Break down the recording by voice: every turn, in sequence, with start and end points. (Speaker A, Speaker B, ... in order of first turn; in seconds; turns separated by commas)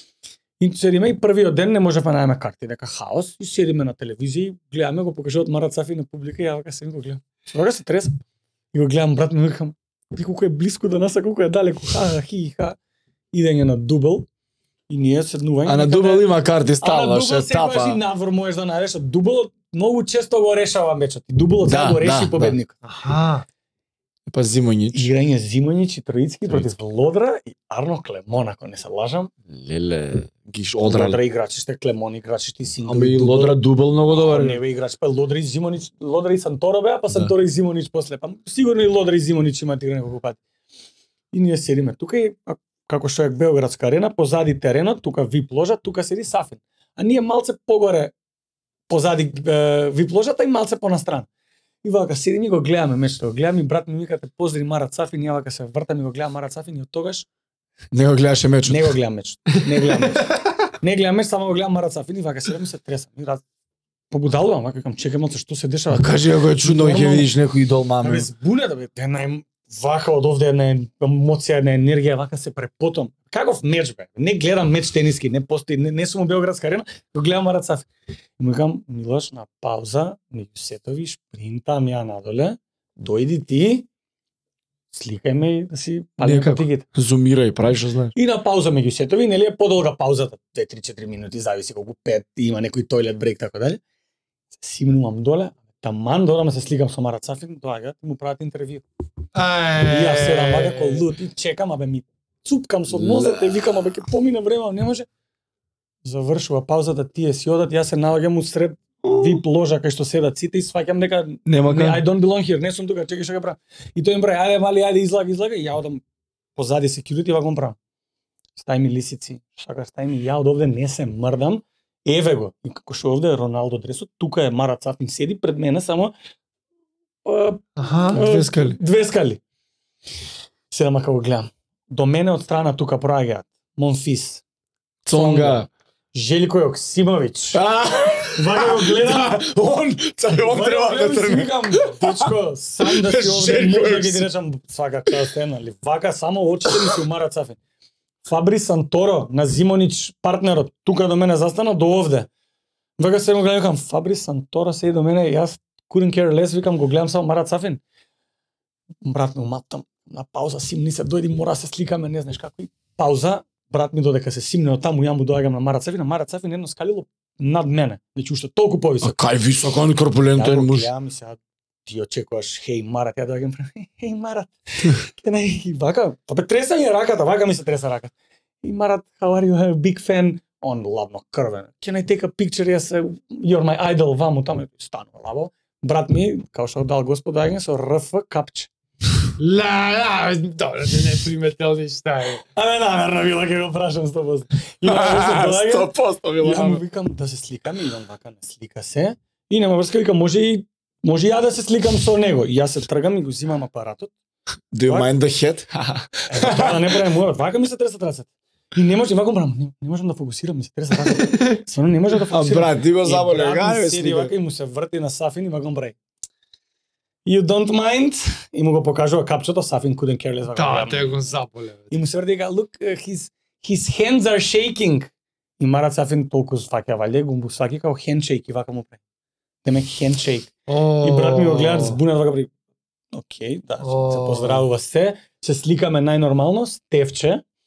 Speaker A: 0.6-8.1, Speaker A: 8.7-12.8, Speaker A: 13.3-14.2, Speaker A: 14.9-16.3, Speaker B: 15.6-18.0, Speaker A: 16.8-22.7, Speaker B: 21.7-22.6, Speaker C: 22.8-23.4, Speaker B: 24.3-25.1, Speaker A: 24.9-29.3, Speaker B: 29.5-31.2, Speaker A: 30.8-40.4, Speaker B: 32.9-34.6, Speaker A: 41.3-48.1, Speaker A: 48.9-51.3, Speaker A: 51.8-57.3, Speaker B: 57.9-58.9, Speaker A: 58.6-63.4, Speaker C: 60.0-60.3, Speaker A: 64.1-67.3, Speaker B: 65.9-68.3, Speaker A: 68.0-77.9, Speaker A: 78.4-83.9, Speaker A: 84.9-86.8, Speaker B: 86.2-88.1, Speaker A: 88.2-93.8, Speaker A: 94.6-98.8, Speaker C: 99.3-101.0, Speaker A: 99.8-105.0, Speaker B: 102.9-103.8, Speaker A: 106.0-116.0, Speaker B: 109.0-109.4, Speaker B: 111.5-112.0, Speaker A: 116.6-117.8, Speaker A: 118.6-126.1, Speaker A: 127.2-129.4, Speaker C: 127.8-128.2, Speaker B: 128.1-128.8, Speaker A: 130.7-134.4, Speaker B: 135.0-135.7, Speaker A: 135.1-137.6, Speaker B: 137.5-144.3, Speaker A: 138.3-139.5, Speaker A: 140.4-147.6, Speaker B: 146.7-146.9, Speaker A: 148.2-152.3, Speaker A: 153.0-157.8, Speaker A: 159.0-169.2, Speaker B: 169.0-170.9, Speaker A: 170.3-188.7, Speaker C: 189.4-192.4, Speaker A: 192.5-204.1, Speaker B: 194.8-196.8, Speaker B: 204.7-206.8, Speaker A: 206.3-215.9, Speaker B: 212.3-214.3, Speaker A: 217.2-221.1, Speaker C: 220.5-221.9, Speaker A: 221.9-229.0, Speaker A: 229.6-232.5, Speaker C: 230.7-232.0, Speaker A: 233.1-237.4, Speaker C: 233.8-234.7